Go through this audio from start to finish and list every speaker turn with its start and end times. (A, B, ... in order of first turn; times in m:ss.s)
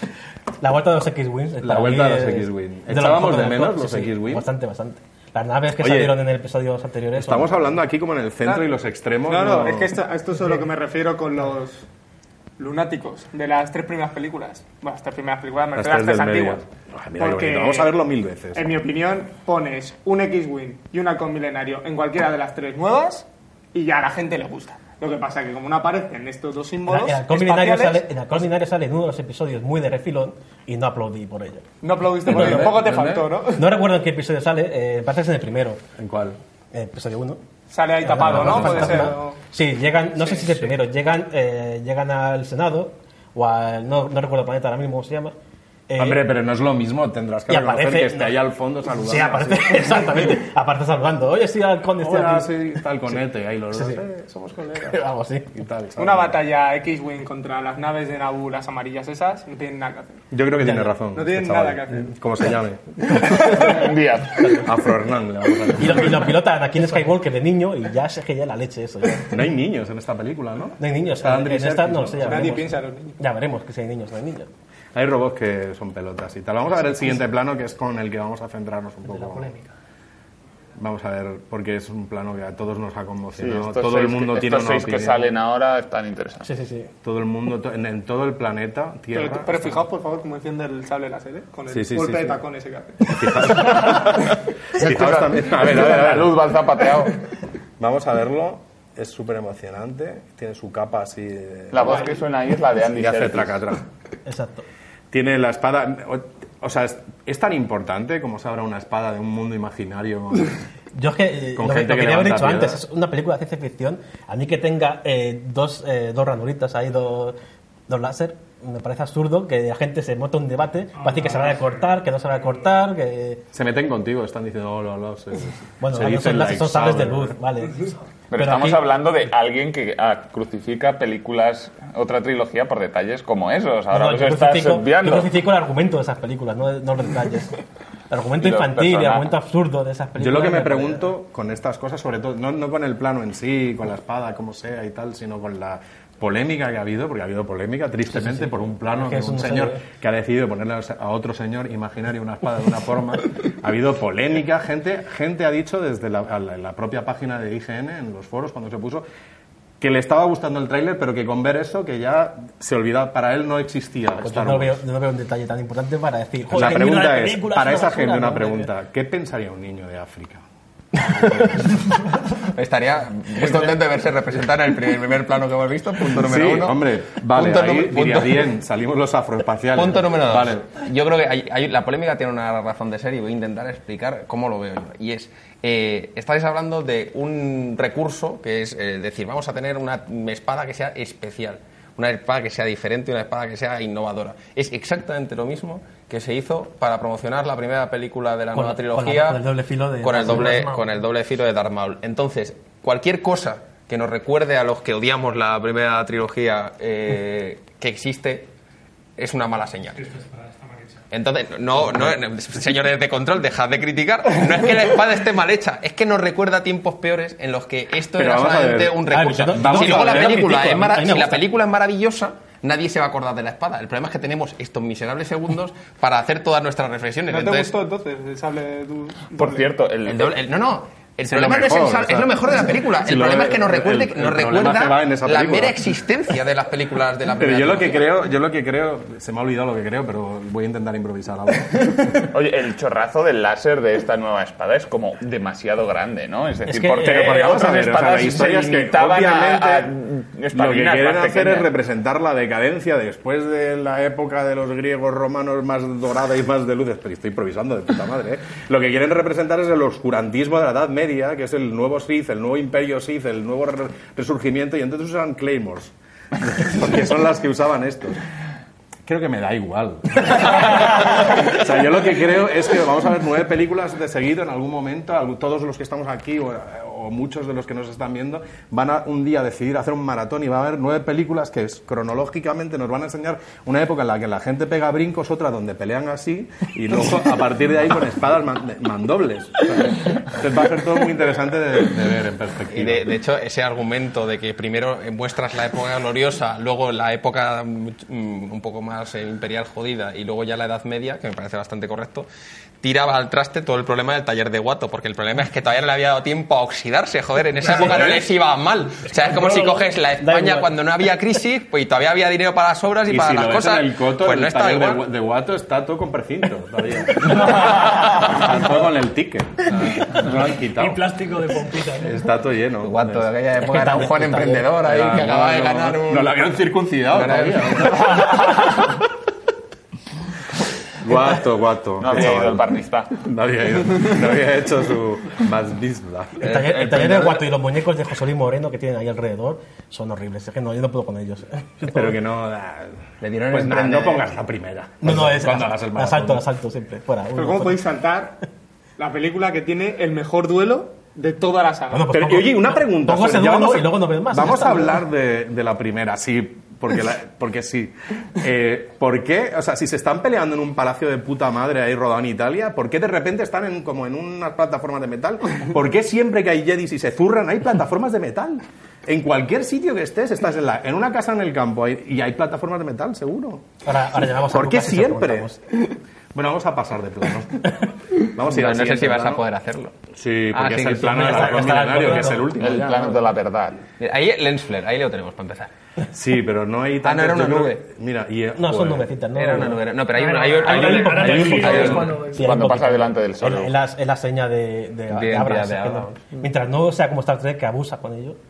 0:00.6-0:07.5 A
0:01.6-0:04.4 B
0:05.8-0:06.2 B
0:07.1-0:10.0 B
0:09.2-0:11.8 C
0:12.6-0:16.6 C
0:15.7-0:18.7 B
0:17.2-0:18.0 C
0:18.5-0:28.1 C
0:26.8-0:31.6 A
0:31.8-0:33.7 C
0:32.2-0:33.3 B
0:32.3-0:32.7 A
0:33.5-0:35.8 A
0:36.0-0:36.4 B
0:36.7-0:37.4 A
0:37.7-0:39.4 C
0:38.0-0:45.3 A
0:38.2-0:39.1 B
0:40.2-0:40.6 C
0:45.9-0:46.2 A
0:46.0-0:50.1 B
0:47.5-0:48.3 A
0:48.9-0:52.8 A
0:52.0-0:55.0 B
0:53.7-0:54.0 A
0:54.9-0:55.5 A
0:55.5-0:56.4 B
0:56.0-1:00.2 C
1:00.3-1:03.7 B
1:00.6-1:00.9 A
1:01.1-1:02.2 C
1:03.1-1:04.6 D
1:04.5-1:06.3 B
1:05.8-1:09.4 A
1:09.3-1:12.6 B
1:10.8-1:14.5 A
1:12.2-1:13.2 C
1:14.9-1:19.5 B
1:19.3-1:19.6 E
1:20.8-1:25.3 B
1:23.4-1:26.4 D
1:26.4-1:26.9 A
1:27.0-1:29.8 B
1:29.1-1:33.6 C
1:31.7-1:32.4 B
1:33.0-1:36.5 B
1:34.7-1:37.2 D
1:37.8-1:42.1 B
1:41.7-1:43.6 D
1:42.9-1:43.8 B
1:44.2-1:44.6 A
1:45.1-1:50.6 B
1:50.9-1:57.4 A
1:51.5-1:52.8 B
1:57.9-2:03.4 A
2:01.3-2:01.6 C
2:03.5-2:07.4 B
2:05.8-2:08.8 A
2:08.3-2:15.3 D
2:13.9-2:17.6 A
2:18.1-2:21.0 A
2:18.4-2:19.3 D
2:20.2-2:39.0 B
2:28.1-2:29.8 A
2:39.8-2:44.8 B
2:44.2-2:48.7 A
2:46.5-2:50.4 B
2:51.0-2:51.8 B
2:52.3-2:58.5 F
2:56.0-3:00.7 B
2:59.7-3:19.4 F
3:18.5-3:20.9 A
3:20.0-3:28.5 F
3:29.2-3:30.2 F
3:31.1-3:47.7 F
3:38.1-3:41.1 B
3:39.1-3:41.4 A
3:47.3-3:49.7 C
3:49.3-3:50.4 D
3:50.0-3:58.0 F
3:51.2-3:56.0 B
3:57.3-4:02.3 B
4:02.2-4:11.7 D
4:06.6-4:07.4 A
4:07.0-4:09.9 B
4:10.5-4:28.2 B
4:29.0-4:53.1 B
4:52.7-5:02.3 F
5:02.8-5:15.0 F
5:07.6-5:08.1 A
5:10.2-5:10.7 A
5:13.1-5:21.0 B
5:17.6-5:18.2 D
5:20.7-5:22.2 E
5:22.0-5:23.3 B
5:22.8-5:26.4 F
5:23.6-5:24.7 A
5:24.8-5:28.3 B
5:27.1-5:28.3 F
5:31.0-5:37.0 B
5:32.0-5:33.2 D
5:36.4-5:42.1 A
5:41.8-5:46.4 B
5:43.2-5:44.3 F
5:45.0-5:47.8 A
5:47.3-5:48.4 C
5:49.0-5:52.2 C
5:51.9-5:55.0 A
5:52.1-6:13.7 B
6:13.8-6:15.6 A
6:14.3-6:15.6 B
6:16.3-6:19.4 B
6:18.4-6:19.9 F
6:20.1-6:23.3 B
6:20.5-6:22.4 F
6:21.1-6:22.5 A
6:22.6-6:23.8 D
6:24.0-6:25.7 F
6:26.1-6:29.1 B
6:27.0-6:27.8 F
6:28.6-6:29.8 A
6:29.3-6:32.1 F
6:30.1-6:32.7 E
6:30.6-6:38.4 A
6:31.1-6:32.2 B
6:32.2-6:33.7 D
6:35.1-6:36.4 F